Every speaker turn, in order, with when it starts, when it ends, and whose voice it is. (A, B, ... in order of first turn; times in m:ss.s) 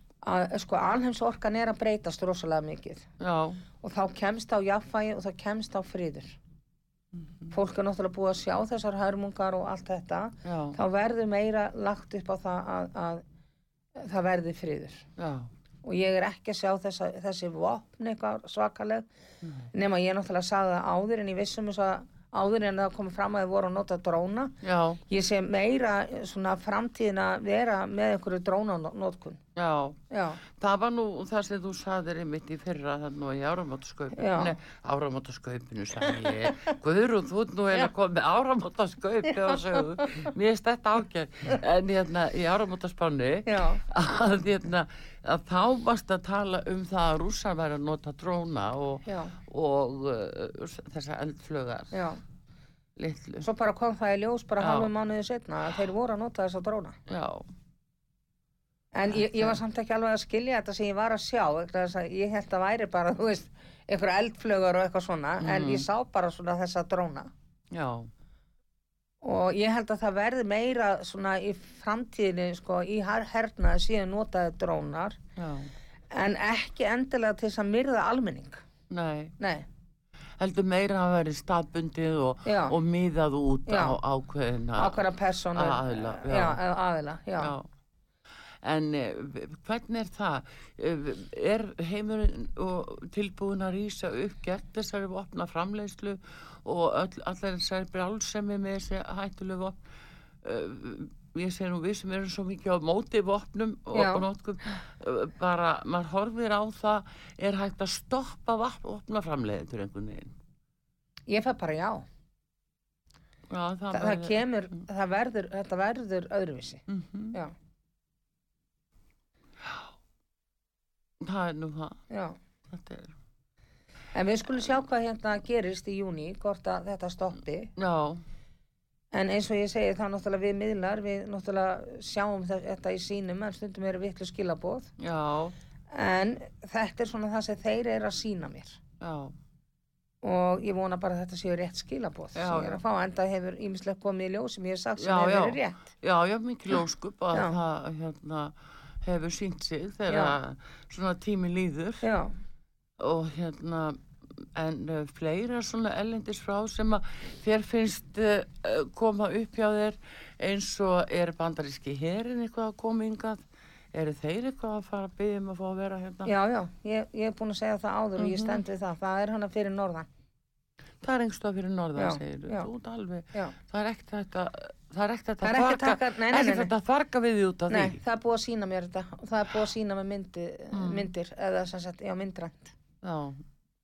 0:00.2-0:03.1 A
0:03.2-0:03.6 B
0:03.8-0:06.4 A
0:07.5-0:13.2 A
0:10.4-0:10.8 B
0:14.0-0:15.1 A
0:15.2-0:15.5 B
0:15.8-0:19.0 A
0:19.7-0:24.6 A
0:24.6-0:25.0 B
0:25.1-0:29.4 A
0:29.6-0:52.0 B
0:30.1-0:30.4 A
0:34.1-0:34.6 A
0:39.7-0:40.0 A
0:43.5-0:43.8 A
0:49.1-0:49.4 A
0:51.9-0:52.2 A
0:53.0-0:53.5 B
0:53.4-0:57.0 A
0:54.6-0:54.9 B
0:57.1-0:57.5 B
0:58.9-1:07.3 A
0:59.2-0:59.6 B
1:05.4-1:05.9 B
1:07.7-1:08.1 B
1:09.2-1:15.2 A
1:15.4-1:15.7 B
1:16.1-1:18.6 A
1:18.9-1:19.4 B
1:19.4-1:19.7 A
1:20.4-1:25.0 B
1:22.5-1:22.8 A
1:23.7-1:24.0 A
1:24.8-1:27.5 A
1:25.6-1:26.6 B
1:27.4-1:27.7 B
1:28.6-1:39.8 B
1:40.4-1:50.3 B
1:43.9-1:44.2 A
1:51.3-1:52.1 A
1:53.5-1:54.4 B
1:53.9-1:57.5 A
1:56.9-1:57.4 B
2:01.2-2:02.0 B
2:02.1-2:02.4 A
2:02.7-2:03.1 B
2:04.1-2:07.7 A
2:07.8-2:08.2 B
2:09.1-2:14.9 A
2:15.0-2:15.6 B
2:15.9-2:18.8 A
2:19.0-2:19.4 B
2:20.2-2:25.9 A
2:22.4-2:22.8 B
2:25.0-2:32.0 B
2:30.1-2:30.4 A
2:32.0-2:32.3 A
2:33.0-2:46.3 B
2:46.3-2:50.1 A
2:48.2-2:48.6 B
2:51.0-2:58.0 B
2:52.0-2:52.7 A
2:55.4-2:56.7 A
2:57.7-3:02.7 A
3:00.7-3:01.1 B
3:03.0-3:03.4 B